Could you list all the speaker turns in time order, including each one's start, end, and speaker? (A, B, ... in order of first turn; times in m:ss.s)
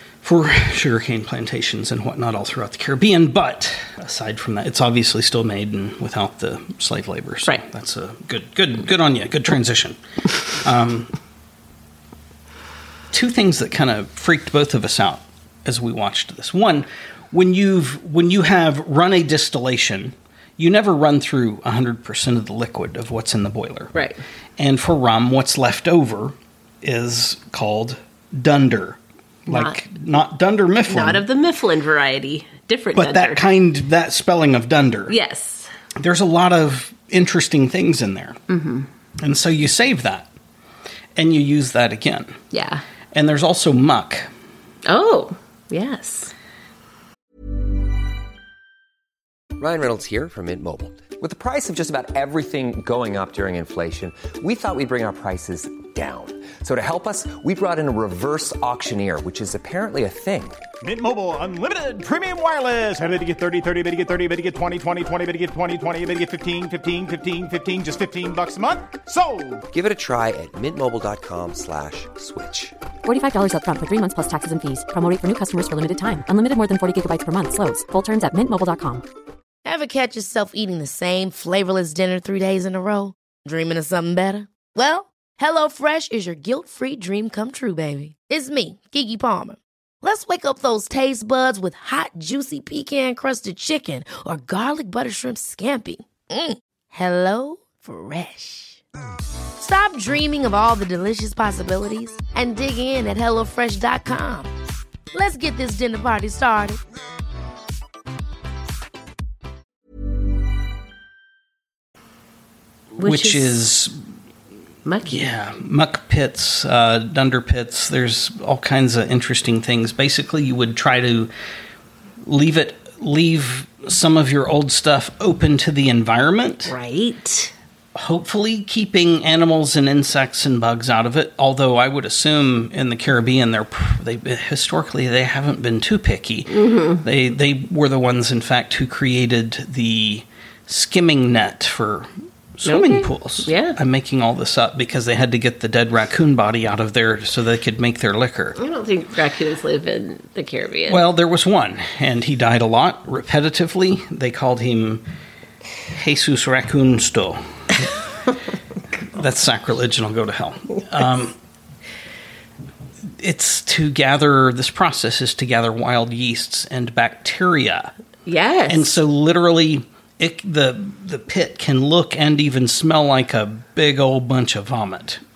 0:00.2-0:10.0 A
0:10.5-0:11.1 A
0:13.1-0:23.9 A
0:23.9-0:24.2 B
0:24.6-0:31.2 A
0:29.5-0:29.8 B
0:30.9-0:33.4 B
0:33.0-0:35.1 A
0:35.1-0:35.7 B
0:36.0-0:38.4 A
0:38.5-0:38.9 B
0:39.2-0:40.3 A
0:41.2-0:42.4 A
0:42.5-0:42.8 B
0:43.1-0:44.3 A
0:44.8-0:46.3 B
0:49.6-1:00.6 C
1:00.8-1:09.6 D
1:09.7-1:12.7 C
1:13.0-1:19.0 E
1:19.6-1:38.8 F
1:39.6-1:44.5 F
1:45.1-1:46.8 F
1:53.0-1:53.9 A
1:53.0-1:53.5 B
1:54.8-1:55.2 B
1:55.0-2:01.3 A
2:02.2-2:06.7 A
2:06.6-2:07.5 B
2:07.9-2:28.6 A
2:16.5-2:17.0 B
2:22.6-2:23.8 B
2:28.6-2:31.0 B
2:30.9-2:35.0 A
2:35.9-2:37.9 A
2:39.1-2:41.3 A
2:43.2-2:47.9 A
2:48.2-2:48.9 B
2:48.7-2:55.2 A